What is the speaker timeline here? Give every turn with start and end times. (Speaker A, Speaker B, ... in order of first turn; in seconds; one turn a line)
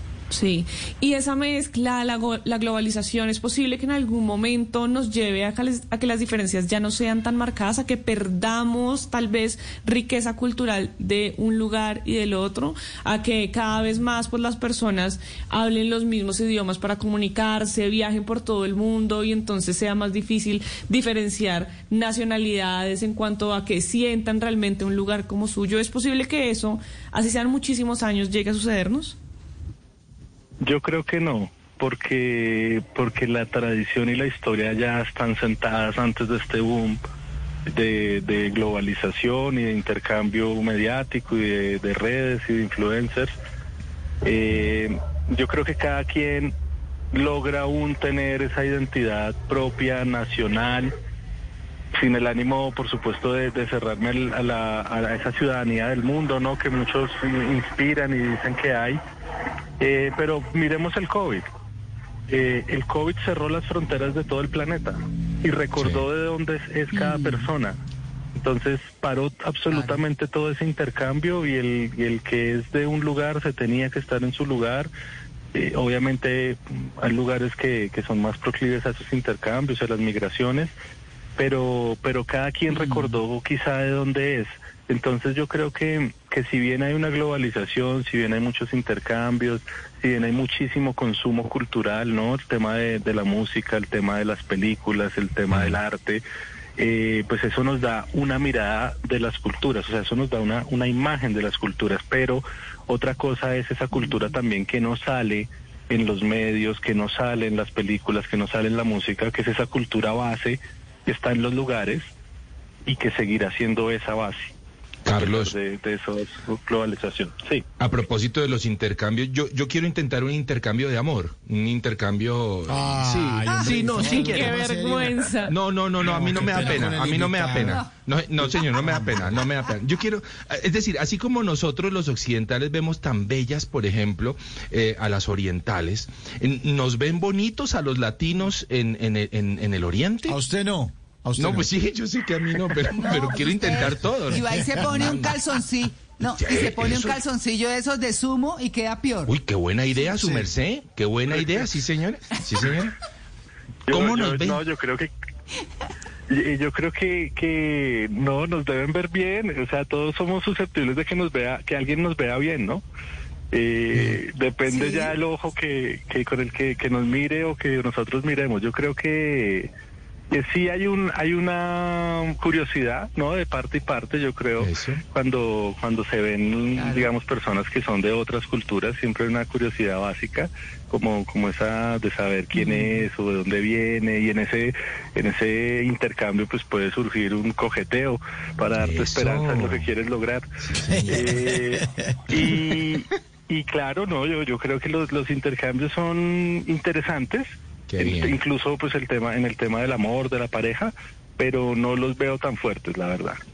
Speaker A: 0.3-29.1
Speaker B: 30.6-37.0
Speaker B: 37.7-43.3
Speaker B: 44.2-46.5
Speaker B: 47.1-50.9
Speaker B: 51.9-59.0
Speaker B: 59.8-61.4
Speaker B: 62.3-67.8
Speaker C: 65.8-66.0
Speaker D: 66.9-67.5
Speaker B: 68.3-74.9
Speaker D: 69.7-70.0
Speaker B: 75.5-80.7
Speaker B: 81.4-96.2
Speaker D: 82.7-83.2
Speaker C: 95.5-95.8
Speaker B: 96.8-112.1
Speaker B: 112.8-114.5
Speaker C: 115.0-115.5
Speaker B: 115.1-117.6
Speaker C: 117.8-140.4
Speaker E: 122.7-125.1
Speaker D: 123.5-124.2
Speaker A: 124.2-125.6
Speaker E: 126.0-127.8
Speaker D: 127.6-127.9
Speaker E: 128.5-129.4
Speaker E: 140.2-141.7
Speaker C: 141.4-145.3
Speaker D: 142.9-149.3
Speaker C: 146.4-147.2
Speaker C: 149.3-152.9
Speaker E: 150.1-150.5
Speaker C: 153.9-154.6
Speaker B: 153.9-155.1
Speaker B: 156.3-162.8
Speaker B: 163.5-169.7
Speaker D: 164.7-165.1
Speaker B: 170.3-190.4
Speaker C: 174.6-175.0
Speaker D: 176.7-177.1
Speaker D: 182.5-183.1
Speaker C: 188.7-189.9
Speaker C: 190.6-191.5
Speaker E: 190.9-192.3
Speaker B: 191.1-197.4
Speaker C: 197.9-198.4
Speaker B: 198.0-203.4